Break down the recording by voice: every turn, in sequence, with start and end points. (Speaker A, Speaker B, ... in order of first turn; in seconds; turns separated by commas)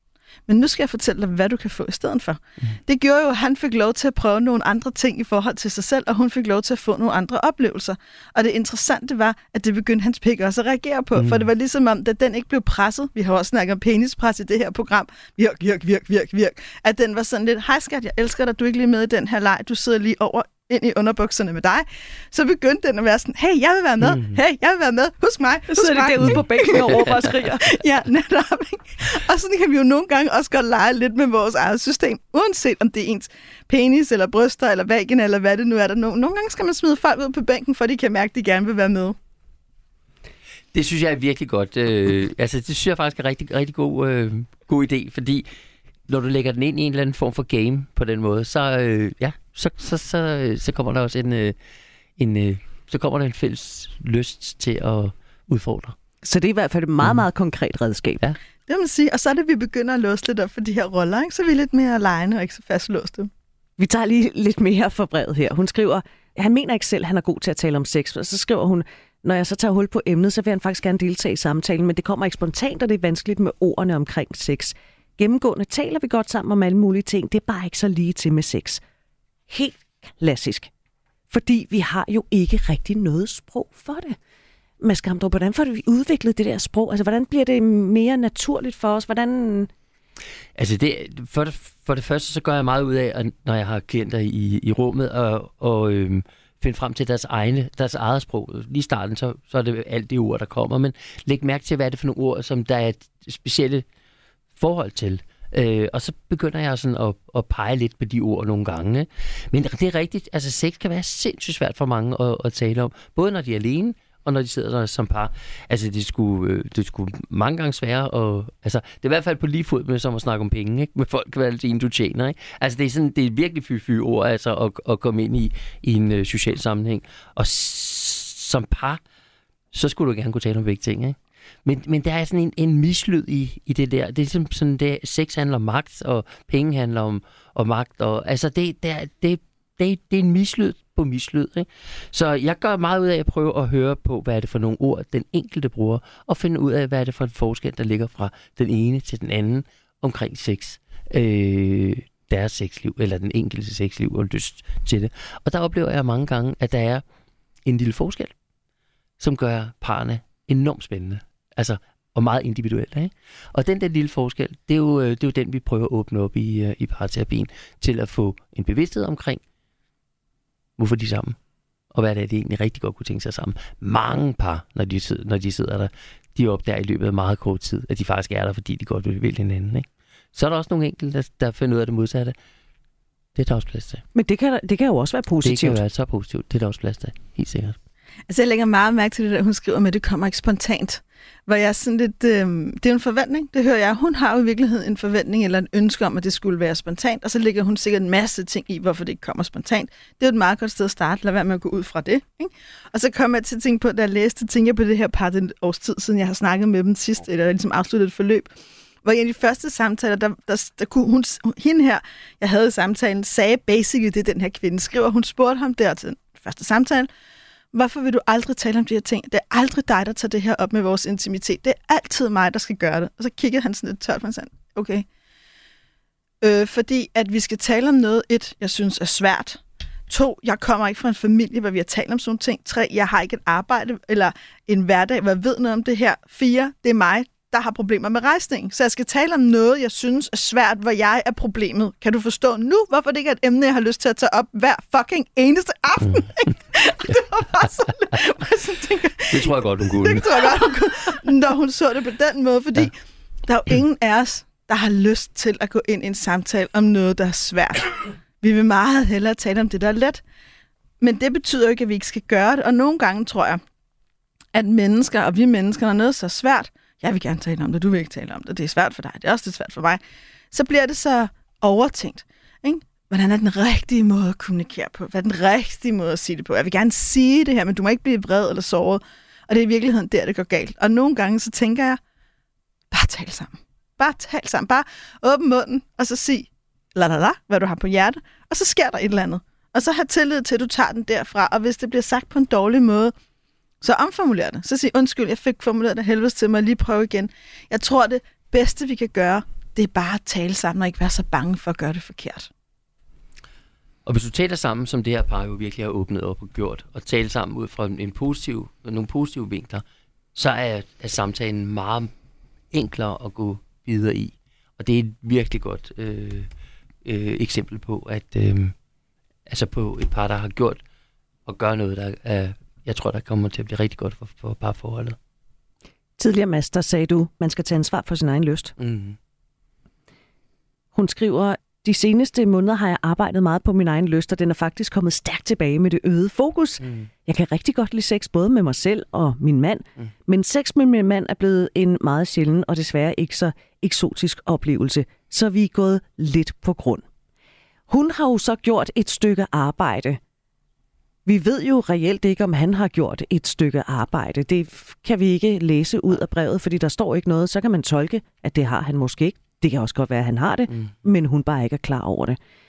Speaker A: 0.5-39.2, Speaker B: 11.2-11.4, Speaker B: 24.0-24.4, Speaker C: 25.7-27.8, Speaker B: 40.7-45.5, Speaker B: 46.1-51.6, Speaker B: 52.2-56.0, Speaker C: 56.2-58.2, Speaker A: 58.7-63.3, Speaker C: 63.8-78.8, Speaker C: 79.5-80.7, Speaker C: 81.3-84.2, Speaker C: 84.8-89.7, Speaker B: 90.6-103.8, Speaker B: 104.6-129.0, Speaker B: 129.7-157.0, Speaker B: 157.7-158.3, Speaker B: 159.2-169.4, Speaker B: 170.8-171.4, Speaker B: 171.9-182.3, Speaker B: 183.4-184.0, Speaker C: 184.1-185.8, Speaker B: 185.4-187.8, Speaker A: 188.3-208.5, Speaker A: 209.0-217.1, Speaker A: 217.7-225.1, Speaker A: 226.4-252.9, Speaker B: 249.3-250.4, Speaker A: 253.5-260.2, Speaker A: 261.0-263.6, Speaker A: 264.5-270.0, Speaker A: 270.5-282.0, Speaker A: 282.9-293.1, Speaker A: 293.8-302.5, Speaker B: 304.1-309.8, Speaker B: 310.4-312.1, Speaker B: 312.7-316.5, Speaker B: 317.1-318.7, Speaker B: 319.5-320.8, Speaker B: 321.5-325.2, Speaker C: 326.2-328.8, Speaker B: 328.8-329.2, Speaker C: 330.9-347.1, Speaker C: 347.9-350.2, Speaker C: 351.3-362.4